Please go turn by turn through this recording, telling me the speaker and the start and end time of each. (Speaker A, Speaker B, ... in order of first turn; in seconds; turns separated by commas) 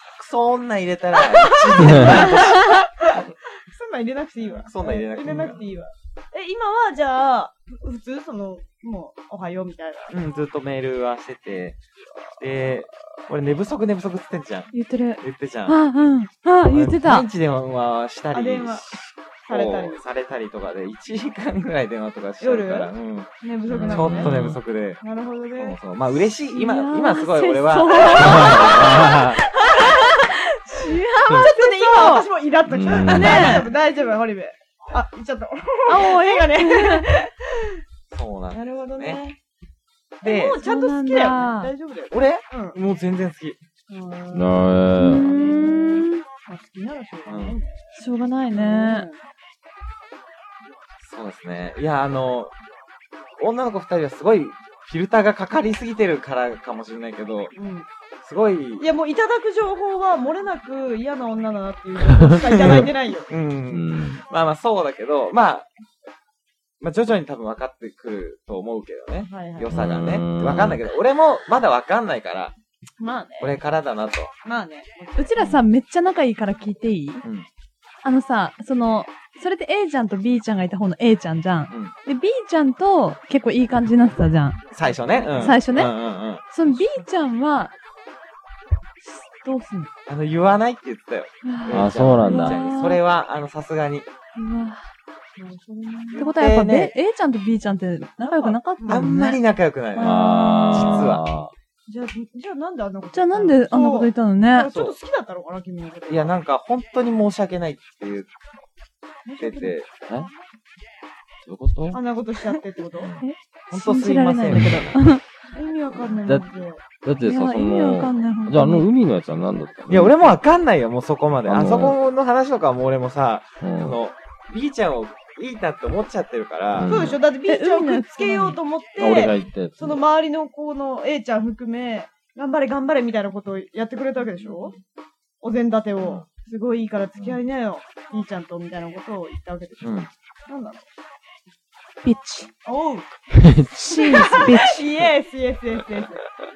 Speaker A: 0.1-2.8, Speaker B: 1.8-10.2, Speaker C: 1.8-2.2, Speaker D: 2.2-2.8, Speaker A: 4.6-5.6, Speaker A: 10.1-11.8, Speaker A: 12.4-15.8, Speaker D: 14.7-17.3, Speaker A: 16.7-25.0, Speaker B: 18.3-20.0, Speaker B: 22.4-24.4, Speaker C: 23.7-24.6, Speaker B: 25.0-25.8, Speaker A: 25.6-29.3, Speaker D: 26.5-32.3, Speaker B: 28.1-37.7, Speaker C: 28.2-29.4, Speaker C: 32.7-33.6, Speaker D: 33.0-33.7, Speaker D: 35.9-37.1, Speaker A: 38.1-39.2, Speaker B: 38.5-39.4, Speaker A: 40.2-40.6, Speaker B: 40.2-42.8, Speaker D: 40.6-41.7, Speaker A: 42.1-43.6, Speaker B: 43.9-48.0, Speaker C: 44.3-45.3, Speaker D: 45.0-46.2, Speaker A: 47.3-47.6, Speaker D: 48.0-49.1, Speaker B: 48.5-49.2, Speaker A: 51.0-52.5, Speaker A: 53.4-57.5, Speaker B: 57.5-57.9, Speaker A: 58.2-58.9, Speaker B: 58.8-63.3, Speaker C: 62.1-62.8, Speaker A: 62.4-65.7, Speaker C: 63.7-64.2, Speaker A: 66.8-72.5, Speaker B: 69.2-69.7, Speaker C: 69.7-70.8, Speaker B: 73.0-73.5, Speaker A: 73.4-74.3, Speaker B: 74.4-75.6, Speaker D: 75.2-77.2, Speaker D: 78.0-84.6, Speaker A: 84.7-86.8, Speaker B: 85.1-85.5, Speaker D: 85.4-87.7, Speaker D: 89.0-89.9, Speaker A: 90.1-94.1, Speaker D: 91.4-93.0, Speaker C: 91.7-92.6, Speaker D: 94.3-94.8, Speaker B: 95.4-96.3, Speaker D: 96.1-99.4, Speaker A: 96.2-96.9, Speaker B: 98.2-99.1, Speaker A: 98.9-101.2, Speaker D: 99.9-101.2, Speaker C: 100.0-101.5, Speaker B: 101.9-106.3, Speaker D: 103.1-104.7, Speaker A: 104.7-104.9, Speaker A: 106.1-108.3, Speaker B: 109.2-109.8, Speaker A: 109.4-109.9, Speaker C: 111.4-112.0, Speaker B: 111.9-113.1, Speaker D: 113.2-115.2, Speaker A: 113.7-115.0, Speaker B: 115.5-116.8, Speaker C: 116.0-116.5, Speaker C: 117.0-120.4, Speaker D: 117.2-118.9, Speaker A: 119.9-127.2, Speaker C: 121.4-122.0, Speaker C: 123.6-124.0, Speaker C: 126.7-127.2, Speaker B: 126.8-134.7, Speaker D: 127.5-128.6, Speaker C: 129.0-130.0, Speaker B: 135.4-140.8, Speaker A: 136.0-136.2, Speaker A: 139.8-140.1, Speaker D: 142.0-142.5, Speaker B: 142.6-143.1, Speaker C: 143.4-144.5, Speaker D: 143.8-144.8, Speaker B: 144.2-146.2